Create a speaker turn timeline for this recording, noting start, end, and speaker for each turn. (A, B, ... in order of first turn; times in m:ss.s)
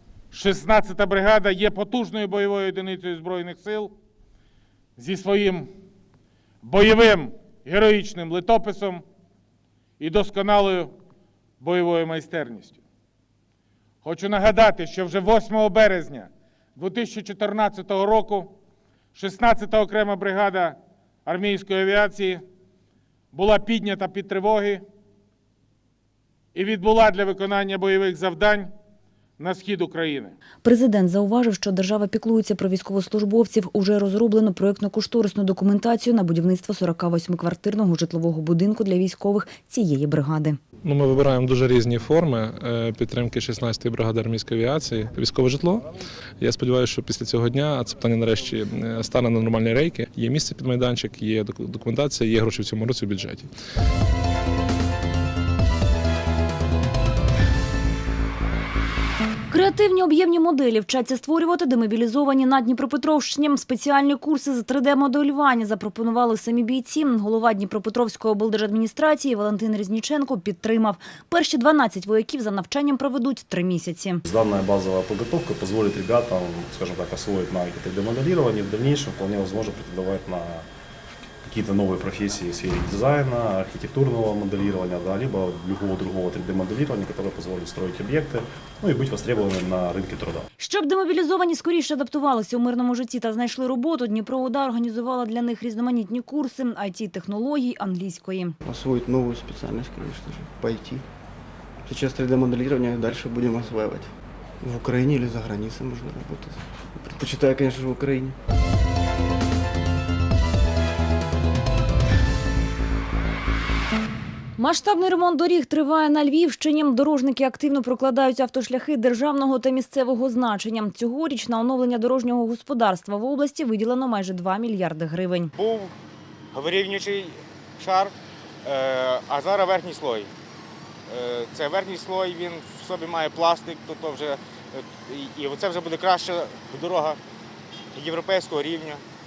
0:00.3-0:03.9 A
0:05.0-0:05.7 A
0:06.6-0:09.0 A
0:10.0-0:10.9 A
0:11.6-0:12.8 A
0:14.0-0:18.5 A
0:19.2-0:22.4 A
0:23.3-0:24.8 A
0:26.5-0:28.7 A
0:29.4-0:30.4 A
0:30.6-0:40.6 B
0:40.8-0:45.8 C
0:46.4-0:53.5 C
0:59.5-1:14.2 B
1:14.2-1:20.6 D
1:21.5-1:30.5 D
1:30.6-1:38.6 B
1:38.6-1:41.0 E
1:41.9-1:44.1 E
1:44.6-1:48.4 E
1:54.6-2:05.5 B
2:05.6-2:05.9 F
2:06.5-2:08.1 F
2:08.6-2:10.3 F
2:11.2-2:17.2 F
2:18.0-2:19.0 F